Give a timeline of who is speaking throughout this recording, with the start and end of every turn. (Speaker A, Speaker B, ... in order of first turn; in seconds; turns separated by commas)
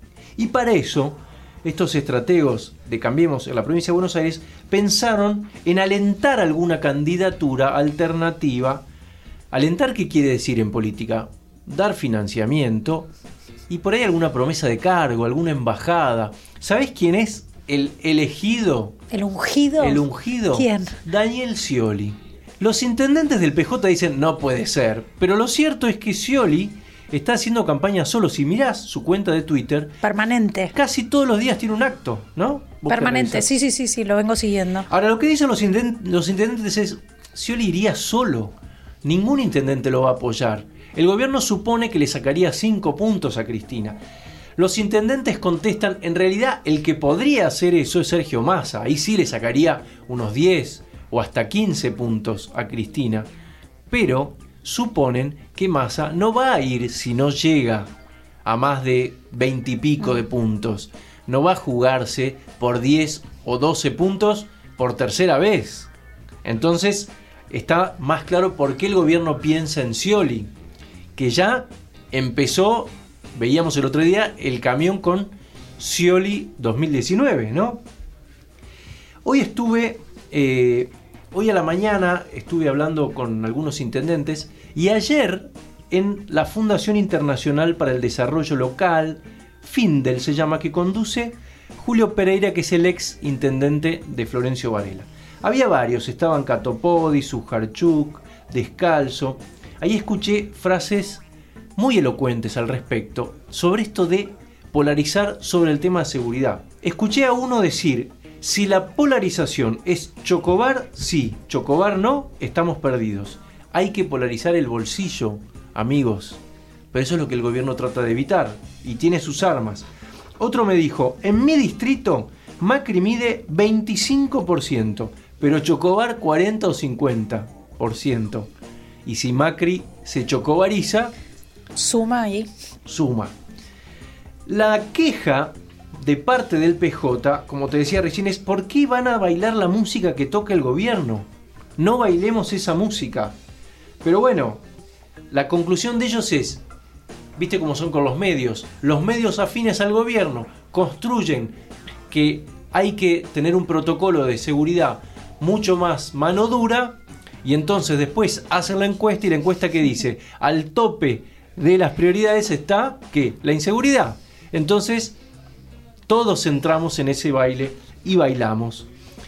Speaker A: 0.4-8.9, Speaker A: 9.5-13.1, Speaker A: 13.7-18.9, Speaker B: 19.1-21.0, Speaker A: 19.8-30.0, Speaker B: 30.0-30.7, Speaker A: 30.7-33.5, Speaker B: 32.9-34.9, Speaker A: 34.9-44.0, Speaker A: 44.6-53.3, Speaker A: 53.9-57.9, Speaker A: 58.4-65.9, Speaker A: 66.4-70.5, Speaker A: 71.2-77.8, Speaker A: 79.2-101.2, Speaker A: 101.8-119.9, Speaker A: 120.4-128.5, Speaker A: 129.1-131.1, Speaker B: 131.8-132.5, Speaker A: 132.8-133.3, Speaker A: 134.5-143.3, Speaker A: 144.0-144.6, Speaker A: 145.3-146.6, Speaker A: 147.4-151.6, Speaker A: 152.1-165.1, Speaker A: 166.1-168.9